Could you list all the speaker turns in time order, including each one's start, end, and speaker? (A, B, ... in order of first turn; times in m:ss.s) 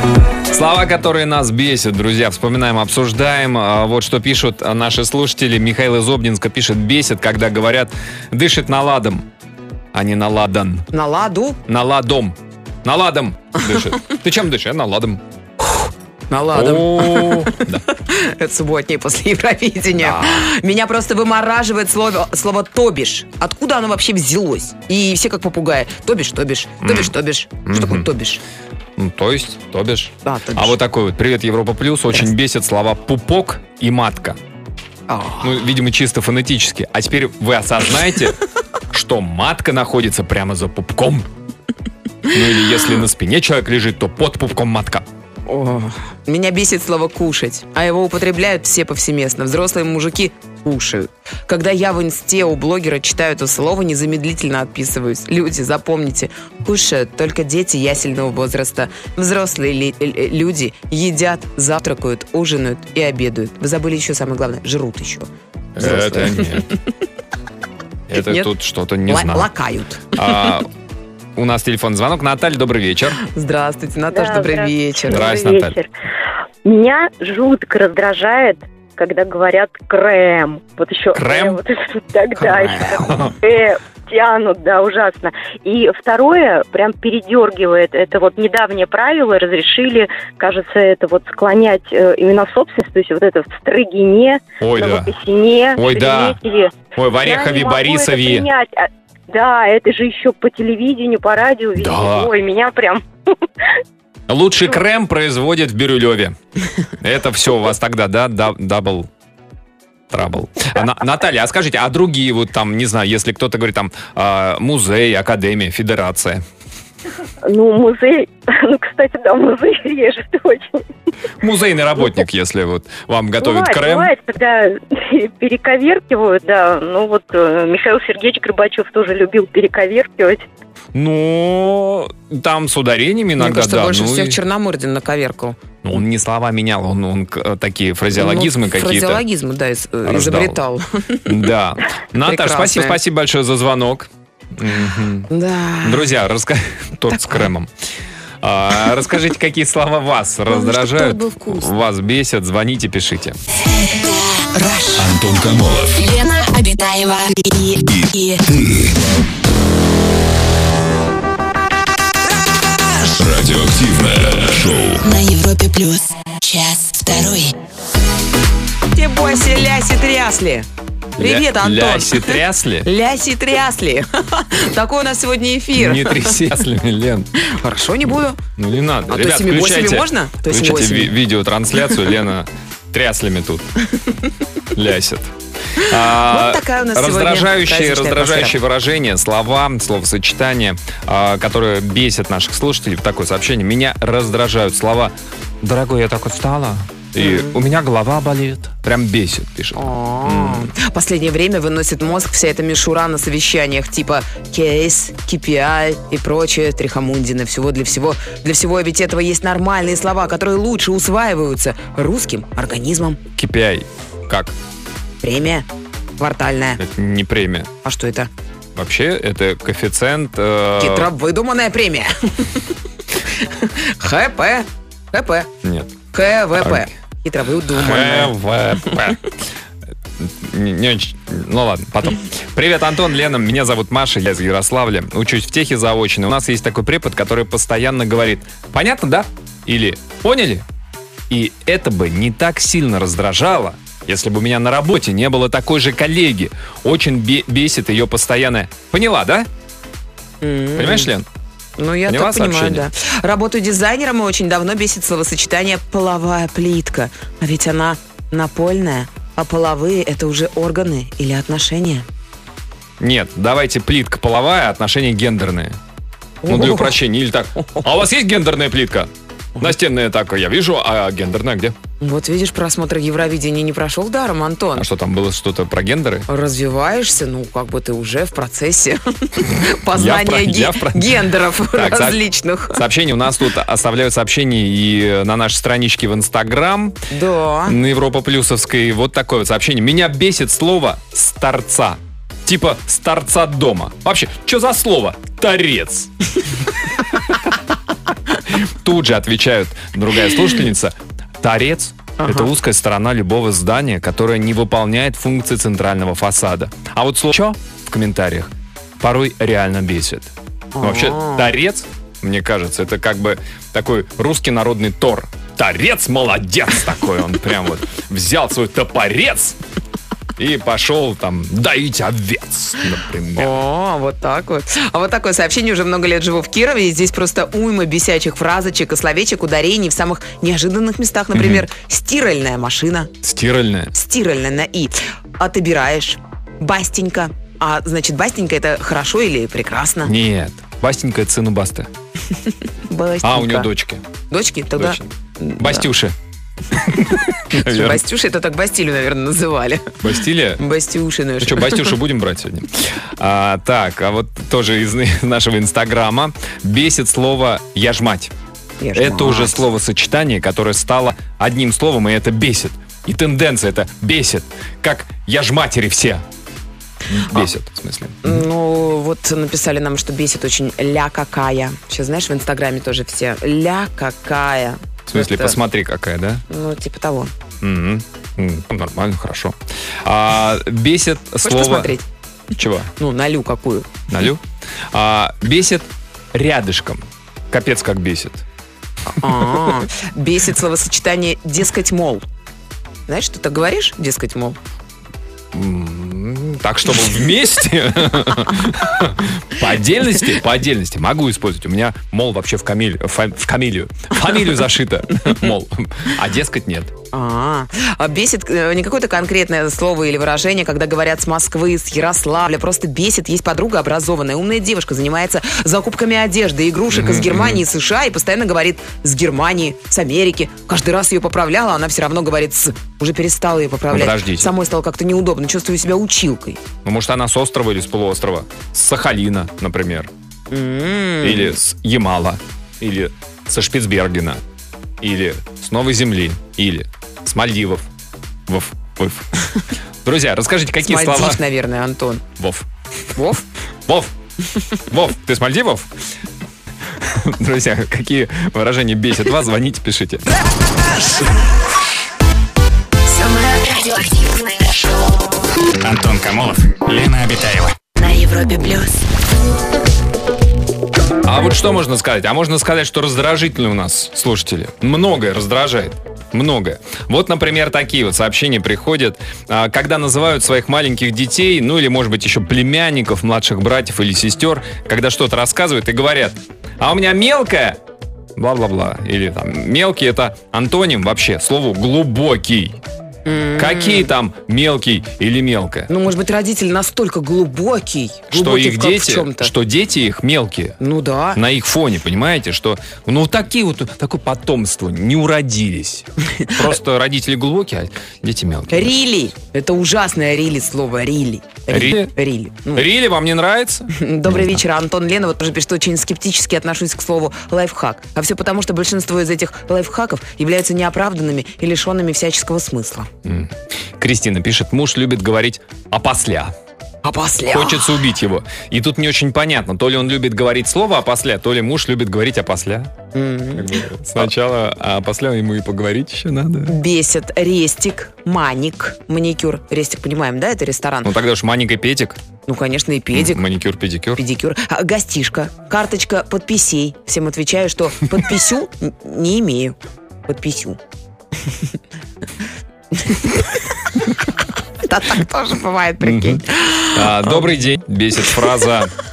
0:00.5-0:09.3 A
0:09.9-0:10.9 A
0:10.9-0:11.6 B
0:11.7-0:15.2 A
0:15.7-0:28.4 B
0:16.5-0:17.8 A
0:20.0-0:20.5 A
0:26.8-0:27.2 A
0:27.7-0:28.1 A
0:29.0-0:34.4 A
0:30.2-0:30.8 B
0:35.1-0:35.6 B
0:35.4-0:38.4 A
0:38.9-0:41.3 A
0:42.3-0:45.1 A
0:45.5-1:06.7 B
1:05.8-1:06.7 A
1:08.1-1:09.5 A
1:08.1-1:08.5 B
1:09.1-1:10.6 B
1:10.1-1:10.7 A
1:11.4-1:13.2 A
1:13.2-1:15.3 B
1:14.1-1:15.9 C
1:15.1-1:15.8 A
1:16.6-1:43.0 C
1:21.1-1:21.6 A
1:22.8-1:23.4 A
1:34.6-1:35.1 A
1:35.8-1:36.4 A
1:36.9-1:38.5 A
1:41.8-1:42.3 A
1:44.3-1:46.4 A
1:47.0-1:49.1 A
1:50.1-1:56.4 A
1:57.4-2:00.8 C
2:01.4-2:04.1 A
2:03.4-2:10.4 C
2:10.9-2:14.4 A
2:13.4-2:15.6 B
2:15.8-2:19.2 A
2:18.1-2:21.5 B
2:20.0-2:20.6 A
2:21.3-2:25.3 A
2:22.2-2:23.0 B
2:25.3-2:26.1 B
2:25.8-2:27.7 A
2:27.1-2:27.5 B
2:28.4-2:33.4 A
2:30.5-2:31.7 B
2:33.7-2:35.3 D
2:35.0-2:36.1 E
2:35.9-2:38.4 D
2:37.9-2:38.9 E
2:43.2-2:45.0 E
2:45.0-2:47.5 D
2:48.9-2:56.5 B
2:51.2-2:52.9 A
2:55.8-2:57.3 A
2:57.4-2:58.4 B
2:58.6-3:03.7 A
2:59.1-3:01.2 B
3:04.7-3:20.7 A
3:06.1-3:08.6 B
3:17.2-3:17.6 B
3:19.8-3:33.2 B
3:33.4-3:34.6 A
3:35.2-3:36.8 B
3:36.8-3:37.7 A
3:37.8-3:38.3 B
3:38.8-3:41.1 A
3:40.8-3:42.7 B
3:43.2-3:45.5 B
3:45.6-3:46.0 A
3:46.1-3:48.4 B
3:46.6-3:46.9 A
3:47.7-3:49.4 A
3:50.2-4:00.7 A
4:01.3-4:09.5 A
4:10.4-4:11.1 B
4:10.8-4:11.3 A
4:11.8-4:22.1 B
4:12.1-4:12.9 A
4:23.0-4:25.8 A
4:26.4-4:27.0 B
4:26.5-4:31.8 A
4:32.0-4:34.9 B
4:34.8-4:36.3 A
4:36.3-4:42.8 B
4:39.9-4:47.0 A
4:47.1-4:47.8 B
4:47.7-4:56.1 A
4:58.5-5:19.6 A
5:02.2-5:02.5 B
5:10.8-5:11.6 B
5:20.4-5:23.6 A
5:23.4-5:33.1 B
5:31.3-5:31.7 A
5:33.2-5:33.9 A
5:33.9-5:40.1 B
5:40.0-5:41.9 A
5:42.9-5:43.7 B
5:43.2-5:44.0 A
5:44.3-5:45.9 B
5:44.8-5:46.2 A
5:46.8-5:48.0 A
5:47.0-5:50.0 B
5:50.0-5:50.6 A
5:50.6-5:51.9 B
5:51.4-5:58.3 A
5:58.8-5:59.6 B
5:59.0-6:06.2 A
6:07.1-6:08.4 A
6:08.2-6:15.6 B
6:15.1-6:16.4 A
6:16.5-6:17.3 B
6:17.6-6:22.0 A
6:21.4-6:22.1 B
6:22.5-6:22.9 A
6:23.0-6:24.0 B
6:24.1-6:28.4 A
6:29.1-6:32.3 B
6:33.1-6:34.6 B
6:35.5-6:46.9 A
6:47.1-7:06.6 B
6:56.9-6:57.6 A
7:03.9-7:04.5 A
7:06.8-7:10.1 A
7:10.5-7:11.5 B
7:11.2-7:14.4 A
7:15.0-7:17.9 A
7:18.5-7:19.3 A
7:20.0-7:21.4 A
7:20.8-7:22.2 B
7:22.4-7:22.7 A
7:23.2-7:23.4 B
7:23.9-7:24.1 A
7:24.9-7:25.9 A
7:27.0-7:30.3 A
7:33.1-7:35.4 D
7:35.8-7:37.8 F
7:38.0-7:39.0 D
7:41.2-7:57.8 A
7:58.4-8:02.8 A
8:03.3-8:04.1 B
8:03.6-8:05.9 A
8:05.9-8:09.5 B
8:08.3-8:10.8 A
8:10.8-8:11.4 B
8:11.3-8:19.0 A
8:18.7-8:22.9 B
8:21.7-8:22.1 A
8:22.7-8:24.6 A
8:23.9-8:33.1 B
8:33.2-8:36.5 A
8:37.0-8:38.0 B
8:37.5-8:42.9 A
8:43.1-8:43.8 B
8:43.6-8:46.8 A
8:46.7-8:51.1 B
8:51.0-8:52.2 A
8:52.5-8:53.4 B
8:53.1-8:54.2 A
8:54.2-8:59.8 B
9:00.3-9:00.8 B
9:03.0-9:03.6 B
9:04.8-9:07.5 B
9:06.0-9:08.9 A